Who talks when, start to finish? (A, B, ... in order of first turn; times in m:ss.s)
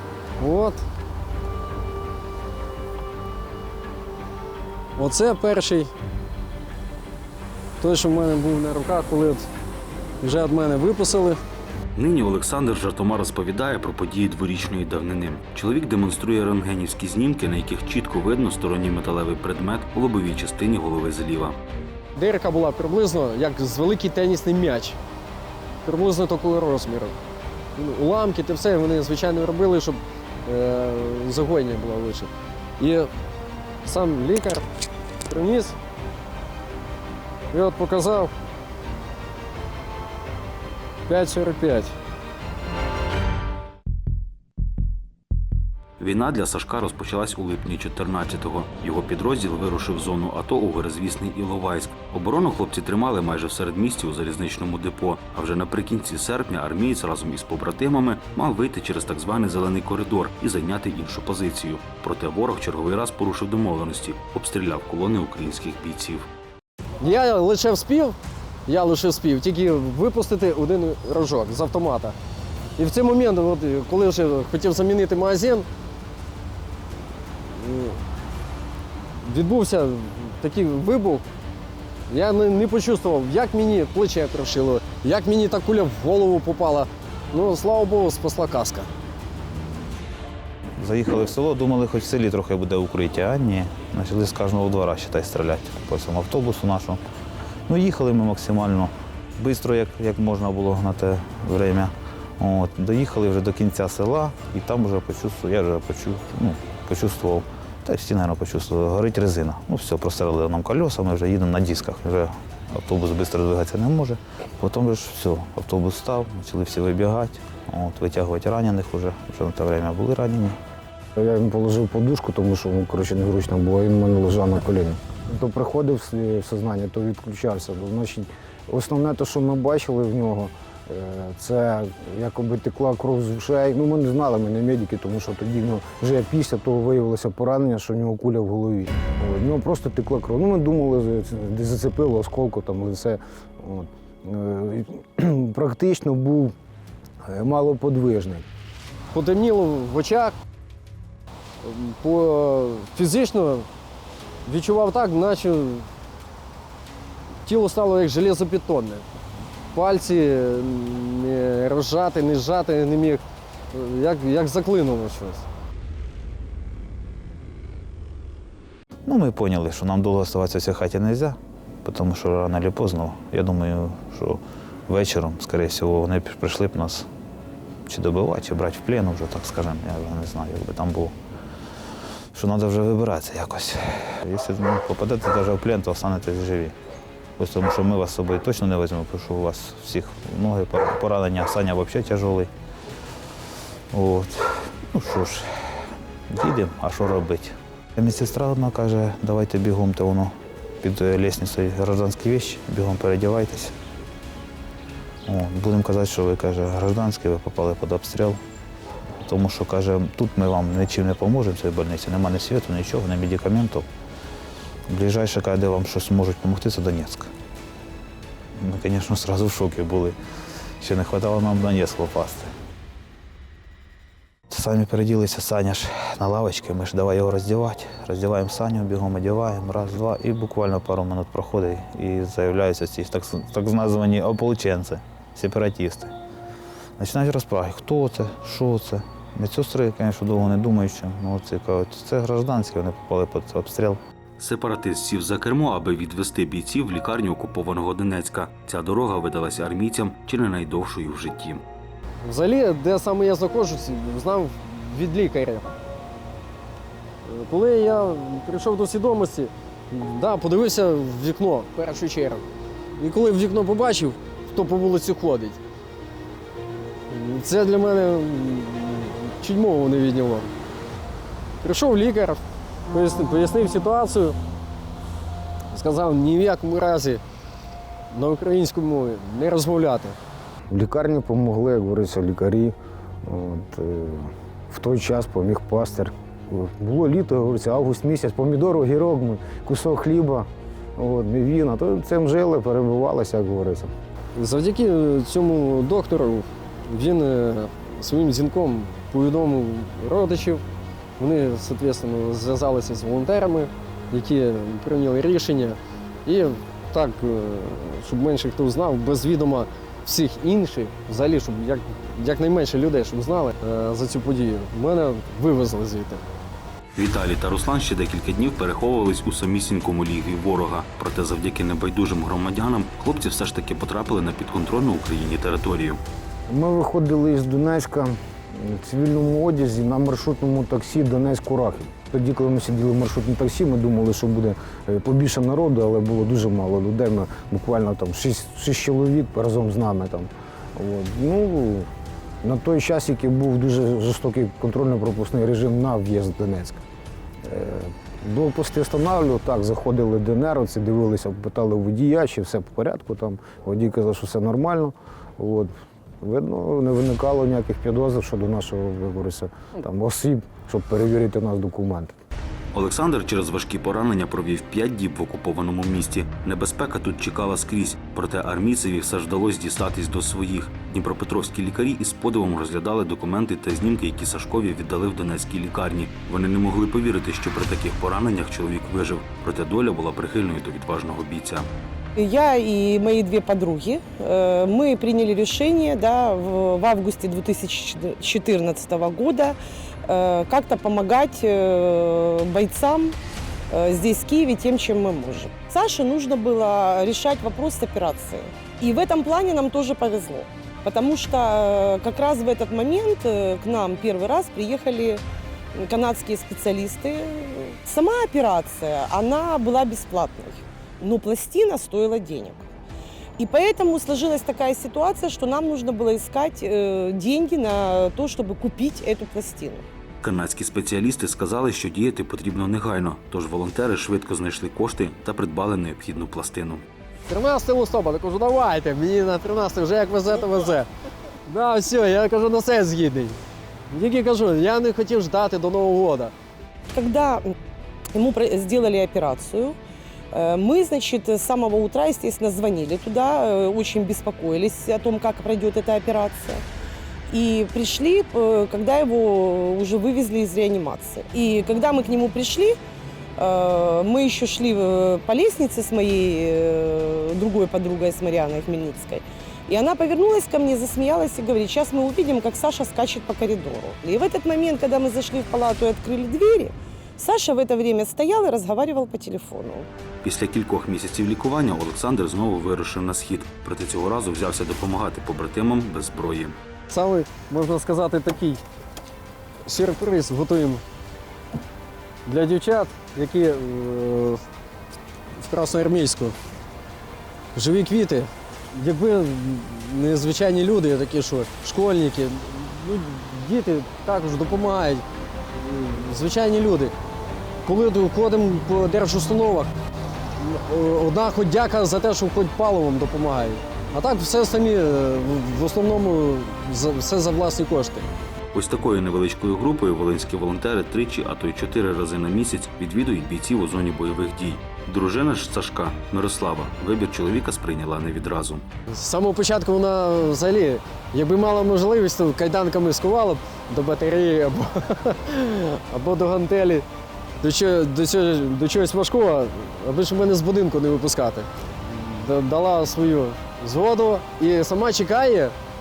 0:00.4-0:00.8 A
0:05.0-0:05.9 A
0:07.8-0:09.5 A
0:10.2-0:11.4 A
0:11.9-0:21.6 B
0:22.1-0:25.0 A
0:25.8-0:27.2 A
0:27.8-0:33.1 A
0:33.8-0:34.6 A
0:35.2-0:35.8 A
0:37.5-0:38.3 A
0:41.1-0:41.9 A
0:46.0-1:06.2 B
1:07.0-1:12.2 A
1:12.8-1:15.7 A
1:17.5-1:18.0 A
1:19.2-1:21.2 A
1:22.1-1:28.9 A
1:30.8-1:37.0 C
1:37.7-2:00.5 C
2:01.2-2:26.5 D
2:27.3-2:28.4 D
2:29.1-2:30.3 A
2:31.6-2:33.7 A
2:34.4-2:35.9 A
2:37.4-2:39.0 A
2:39.7-2:45.4 A
2:49.1-2:57.1 C
2:57.9-3:01.1 C
3:02.3-3:06.7 C
3:07.4-3:12.5 C
3:13.9-3:15.4 C
3:16.3-3:23.7 C
3:25.2-3:28.4 C
3:29.2-3:33.8 C
3:34.9-3:37.3 C
3:38.6-3:40.1 C
3:40.8-3:42.5 C
3:44.5-3:56.1 C
3:57.0-4:04.0 C
4:04.4-4:11.6 B
4:12.2-4:15.7 A
4:17.2-4:22.4 A
4:23.0-4:25.6 A
4:27.1-4:30.5 A
4:31.6-4:34.4 A
4:35.7-4:37.2 A
4:38.1-4:40.2 A
4:40.7-4:53.9 D
4:54.3-5:00.6 A
5:01.2-5:16.2 A
5:16.9-5:26.0 B
5:26.5-5:41.9 D
5:42.4-5:46.8 D
5:47.4-5:55.7 D
5:56.2-6:02.1 D
6:02.7-6:21.7 B
6:22.2-6:33.2 E
6:33.7-6:45.2 E
6:45.8-6:52.6 E
6:53.4-6:59.8 E
7:00.2-7:06.8 B
7:07.2-7:10.9 A
7:11.5-7:13.4 A
7:13.9-7:16.3 A
7:16.9-7:17.5 E
7:18.1-7:19.8 E
7:20.3-7:26.6 E
7:27.3-7:32.8 E
7:33.4-7:49.9 E
7:50.2-7:56.6 B
7:56.9-7:58.6 A
7:59.6-8:00.8 A
8:02.2-8:04.4 A
8:05.4-8:06.3 A
8:07.5-8:16.9 A
8:17.6-8:19.7 A
8:20.4-8:28.1 A
8:28.5-8:38.6 B
8:38.9-8:46.8 A
8:47.4-8:55.5 A